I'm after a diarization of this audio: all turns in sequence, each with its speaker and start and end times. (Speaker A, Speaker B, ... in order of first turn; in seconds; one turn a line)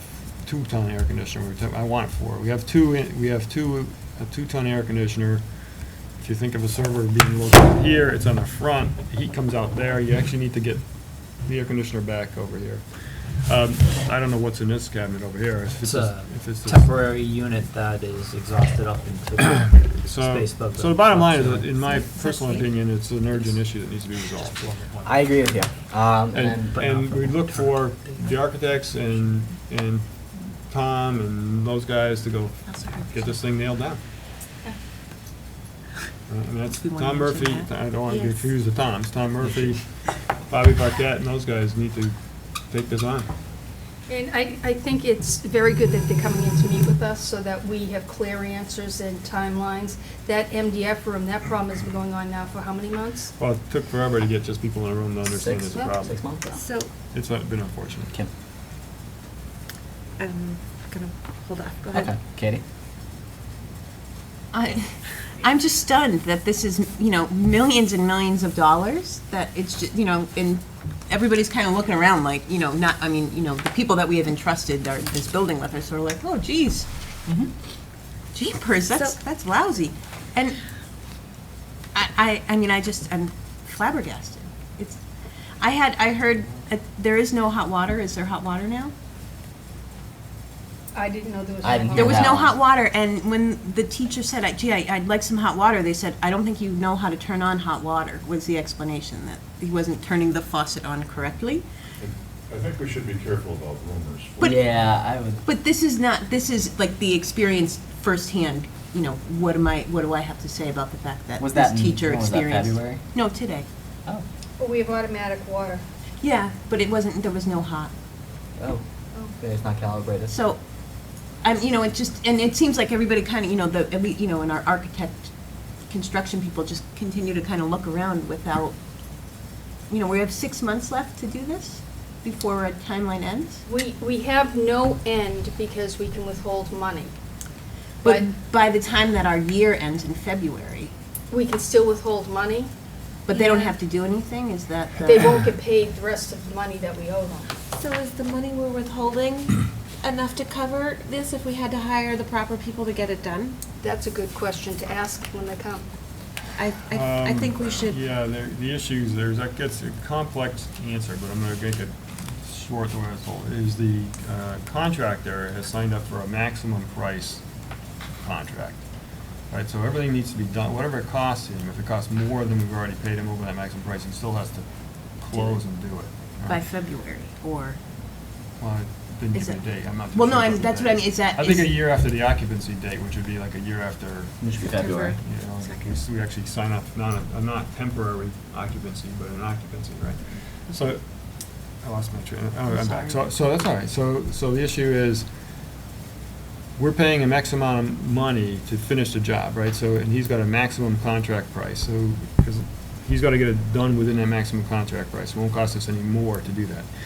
Speaker A: 0.4-5.4
Speaker A: 6.2-10.8
Speaker A: 11.4-12.8
Speaker A: 13.4-16.9
Speaker B: 15.8-21.9
Speaker A: 20.0-24.6
Speaker B: 24.6-25.1
Speaker C: 25.0-26.8
Speaker A: 26.3-30.1
Speaker B: 26.7-28.3
Speaker A: 30.7-34.0
Speaker D: 32.7-33.1
Speaker A: 36.3-39.8
Speaker D: 36.8-37.7
Speaker E: 38.1-38.5
Speaker A: 40.5-42.1
Speaker A: 42.7-43.3
Speaker F: 44.1-53.3
Speaker A: 53.4-56.1
Speaker C: 55.3-56.5
Speaker E: 56.6-56.9
Speaker A: 57.1-58.1
Speaker E: 60.2-62.1
Speaker C: 61.9-62.6
Speaker D: 64.5-76.9
Speaker D: 78.3-80.6
Speaker D: 81.9-85.0
Speaker D: 85.6-88.9
Speaker F: 90.9-92.4
Speaker C: 91.6-92.6
Speaker D: 92.0-101.7
Speaker G: 102.0-104.6
Speaker C: 104.4-105.4
Speaker D: 105.5-113.7
Speaker C: 111.4-113.0
Speaker F: 114.6-115.8
Speaker D: 116.2-117.9
Speaker C: 118.6-118.8
Speaker C: 119.4-120.4
Speaker D: 120.3-120.6
Speaker D: 121.4-125.3
Speaker D: 125.9-128.8
Speaker D: 129.9-133.6
Speaker F: 133.7-137.1
Speaker D: 138.0-140.9
Speaker F: 138.0-138.3
Speaker F: 141.3-142.7
Speaker D: 143.3-145.4
Speaker F: 143.3-143.7
Speaker F: 145.0-147.5
Speaker E: 147.7-153.6
Speaker F: 153.8-155.8
Speaker E: 156.6-158.0
Speaker A: 156.9-167.4
Speaker A: 168.2-168.8
Speaker A: 169.5-174.7
Speaker A: 175.2-176.6
Speaker D: 176.5-177.8
Speaker A: 178.6-184.4
Speaker D: 179.3-179.6
Speaker D: 180.1-181.8
Speaker C: 184.4-185.2
Speaker E: 184.6-185.9
Speaker A: 185.2-191.0
Speaker A: 191.8-195.3
Speaker D: 192.8-193.2
Speaker A: 196.8-206.9